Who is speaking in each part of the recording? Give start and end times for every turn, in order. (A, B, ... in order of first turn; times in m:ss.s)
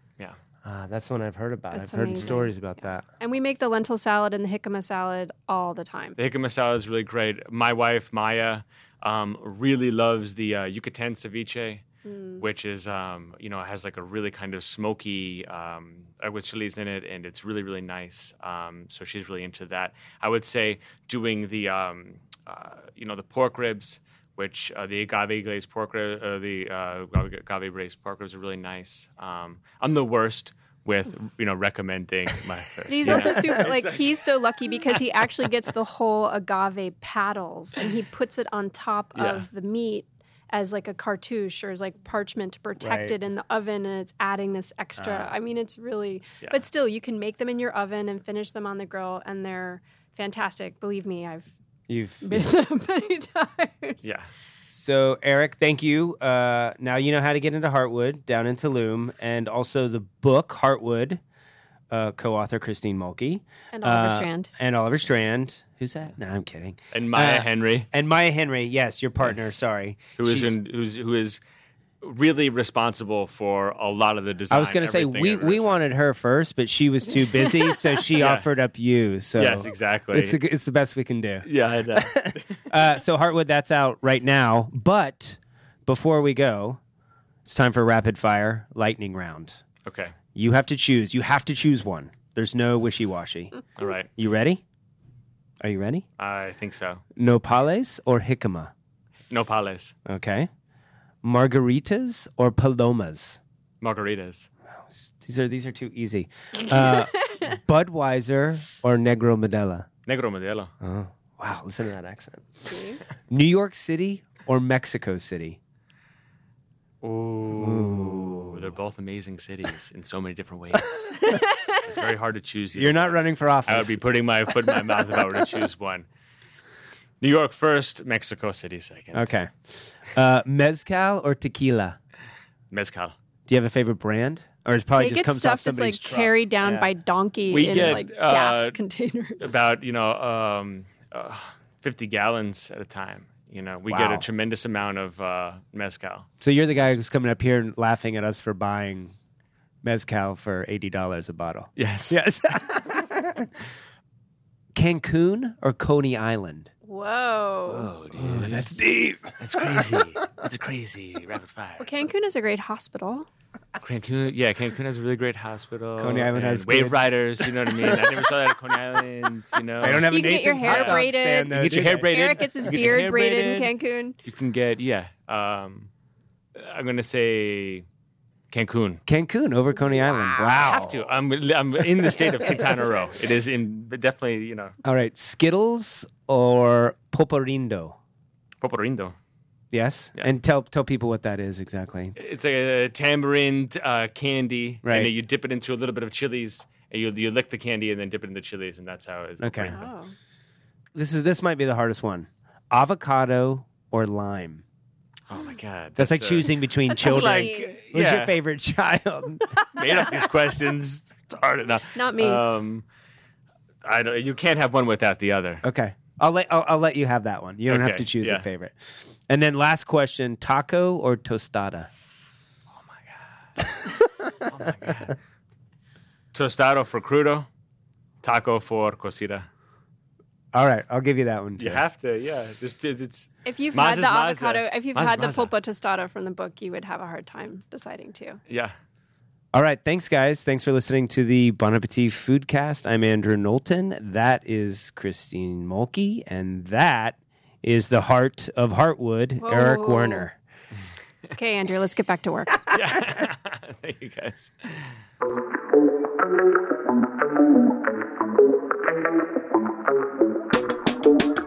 0:00.6-0:03.0 A
0:01.7-0:02.6 B
0:03.2-0:06.2 B
0:06.2-0:11.8 C
0:12.0-0:12.4 B
0:12.4-0:34.3 C
0:32.9-0:51.5 B
0:33.1-0:33.6 A
0:39.2-0:39.5 C
0:42.8-0:43.2 A
0:51.9-0:52.5 A
0:52.2-0:54.1 B
0:54.7-1:01.2 A
1:01.9-1:10.6 A
1:03.7-1:04.5 B
1:06.9-1:07.9 C
1:09.2-1:09.6 C
1:10.2-1:11.4 C
1:12.0-1:15.8 C
1:14.5-1:26.8 A
1:18.2-1:18.5 C
1:19.4-1:20.4 C
1:21.4-1:22.7 C
1:27.5-1:29.6 A
1:29.9-1:30.2 C
1:30.3-1:33.6 A
1:33.8-1:34.1 C
1:34.2-1:34.6 A
1:35.6-1:36.0 A
1:36.2-1:37.0 C
1:37.2-1:38.7 A
1:39.3-1:40.0 C
1:40.1-1:40.5 A
1:41.2-1:43.4 A
1:43.8-1:44.5 C
1:44.9-1:49.9 A
1:50.1-1:50.7 C
1:50.8-1:52.7 A
1:52.7-1:53.0 B
1:53.3-1:55.6 A
1:57.0-2:06.1 C
1:57.6-1:58.6 A
2:02.8-2:04.0 A
2:07.2-2:09.3 C
2:09.1-2:12.0 A
2:12.7-2:13.1 C
2:13.5-2:16.9 A
2:15.0-2:19.6 B
2:17.5-2:18.8 C
2:17.7-2:18.0 A
2:19.4-2:26.3 C
2:23.9-2:24.3 A
2:26.4-2:29.1 A
2:29.8-2:33.5 A
2:31.8-2:32.2 C
2:34.8-2:36.7 A
2:36.8-2:37.9 B
2:37.7-2:38.7 C
2:38.1-2:40.0 A
2:39.4-2:41.9 C
2:41.8-2:43.3 B
2:43.8-2:53.7 C
2:46.0-2:48.1 A
2:49.8-2:53.6 A
2:49.8-2:54.2 B
2:54.2-2:55.9 C
2:56.6-2:57.9 C
2:58.5-2:59.0 C
2:59.1-3:01.1 A
3:00.4-3:04.8 C
3:02.2-3:03.1 B
3:04.8-3:08.0 A
3:08.6-3:09.1 C
3:09.7-3:12.2 A
3:12.2-3:19.9 C
3:14.8-3:15.1 A
3:19.4-3:19.8 A
3:19.7-3:20.1 B
3:20.9-3:24.6 A
3:25.3-3:28.4 C
3:26.0-3:29.6 A
3:26.9-3:27.8 B
3:29.7-3:32.8 C
3:31.9-3:32.4 B
3:33.8-3:35.6 C
3:35.6-3:41.9 A
3:37.7-3:38.4 C
3:42.8-3:45.2 C
3:46.3-3:47.5 C
3:48.2-3:49.5 C
3:50.5-3:51.8 A
3:51.6-3:55.5 C
3:53.5-3:58.4 B
3:59.5-4:10.4 A
4:09.4-4:10.3 B
4:11.4-4:12.6 B
4:12.7-4:15.0 C